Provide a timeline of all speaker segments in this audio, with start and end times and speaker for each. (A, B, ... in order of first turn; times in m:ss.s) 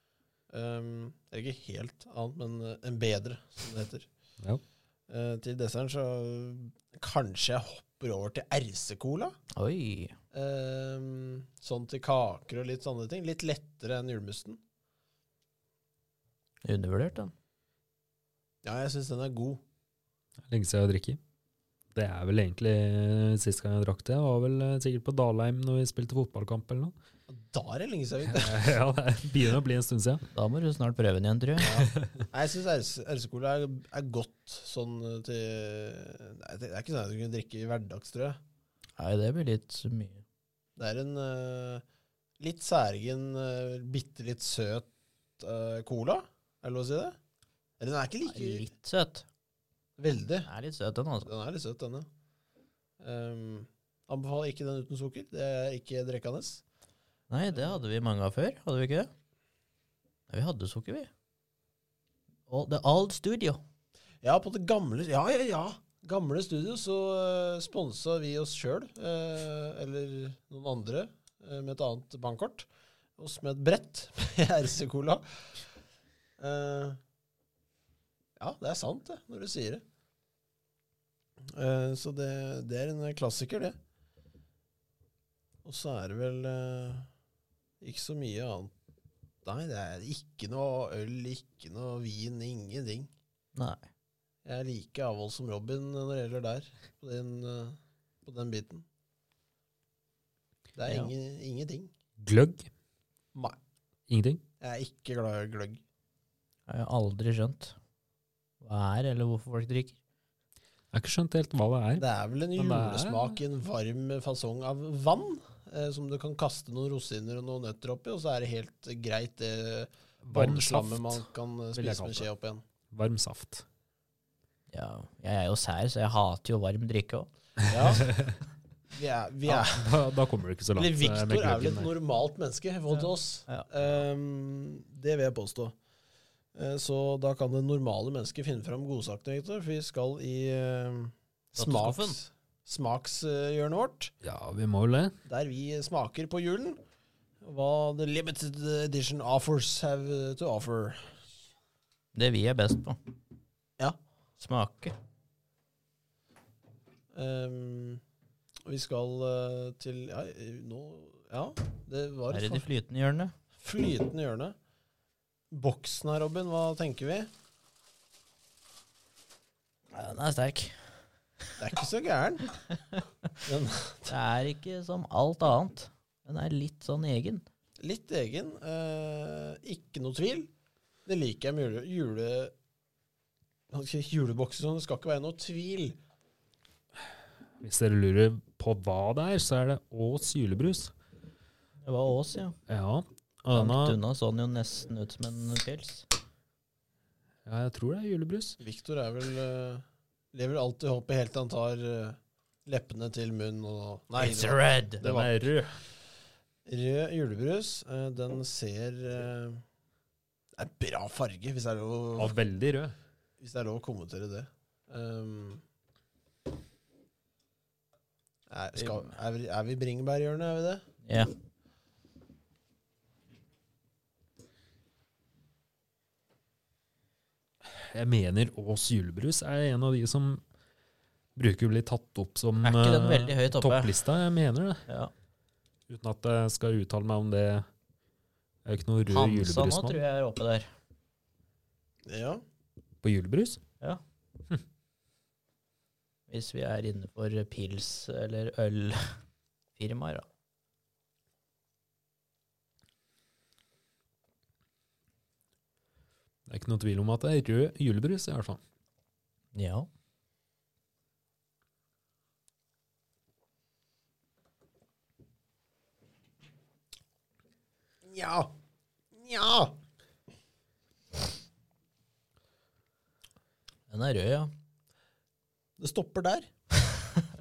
0:00.5-0:04.1 A
0:05.1-0:09.3 A
0:09.5-0:10.1 B
0:10.3-0:14.6 A
0:16.6-0:17.3 B
0:18.6-0:19.6 A
0:20.4-0:21.2 C
0:21.9-0:26.9 C
0:27.3-0:28.6 A
0:28.3-0:30.2 C
0:30.3-0:31.7 B
0:31.6-0:32.1 C
0:31.6-0:38.4 A
0:39.0-0:40.2 B
0:40.8-0:41.8 A
0:42.4-0:44.9 A
0:45.4-0:47.2 A
0:47.8-0:48.7 A
0:48.2-0:49.2 B
0:50.0-0:50.5 A
0:50.4-0:51.3 B
0:51.2-0:52.1 A
0:53.0-0:56.6 A
0:57.3-0:59.1 B
0:57.5-0:57.8 A
1:00.3-1:01.1 B
1:02.5-1:03.6 B
1:04.2-1:15.6 A
1:16.4-1:17.0 A
1:18.4-1:19.8 A
1:21.4-1:23.8 A
1:25.6-1:27.1 A
1:27.8-1:28.7 A
1:29.4-1:33.1 A
1:33.5-1:33.8 B
1:34.4-1:38.8 A
1:40.7-1:41.9 A
1:40.8-1:41.1 B
1:42.2-1:42.7 C
1:44.1-1:44.4 C
1:44.6-1:45.8 A
1:46.7-1:47.7 B
1:48.6-1:50.0 B
1:50.9-1:53.4 C
1:52.0-2:02.6 A
2:00.2-2:02.3 C
2:02.9-2:03.6 C
2:04.7-2:07.3 B
2:07.7-2:08.1 A
2:07.9-2:08.4 C
2:08.9-2:10.0 A
2:09.4-2:11.9 C
2:10.8-2:15.8 A
2:12.9-2:13.7 B
2:16.5-2:24.1 A
2:21.6-2:22.2 B
2:24.2-2:25.2 C
2:25.2-2:26.8 A
2:27.4-2:31.2 A
2:32.1-2:33.0 B
2:34.4-2:34.9 B
2:37.1-2:38.0 A
2:38.6-2:42.6 A
2:42.3-2:43.3 B
2:43.6-2:44.5 A
2:45.5-2:47.3 A
2:49.9-2:50.8 B
2:51.6-2:52.5 A
2:53.4-2:54.1 A
2:54.1-2:57.4 B
2:57.8-3:00.5 A
3:01.0-3:02.5 A
3:03.7-3:06.0 A
3:07.6-3:10.9 C
3:11.8-3:12.6 B
3:12.7-3:14.0 C
3:13.5-3:16.1 B
3:17.4-3:18.6 C
3:18.6-3:25.3 A
3:24.2-3:25.0 B
3:25.0-3:25.7 C
3:26.7-3:29.6 A
3:30.6-3:32.4 A
3:32.2-3:32.9 C
3:33.4-3:35.6 A
3:38.5-3:40.8 A
3:38.8-3:39.1 B
3:41.0-3:41.3 B
3:47.6-3:50.4 C
3:51.4-3:54.8 C
3:52.6-3:54.0 B
3:54.9-3:55.1 B
3:55.9-3:57.6 C
3:58.6-4:00.0 C
3:59.0-4:00.7 B
4:02.0-4:02.4 A
4:03.0-4:03.6 C
4:06.3-4:09.2 B
4:09.8-4:10.2 B
4:16.5-4:18.6 C
4:19.5-4:19.9 B
4:28.0-4:28.5 A
4:29.1-4:29.7 A
4:33.9-4:34.5 B
4:35.8-4:36.5 A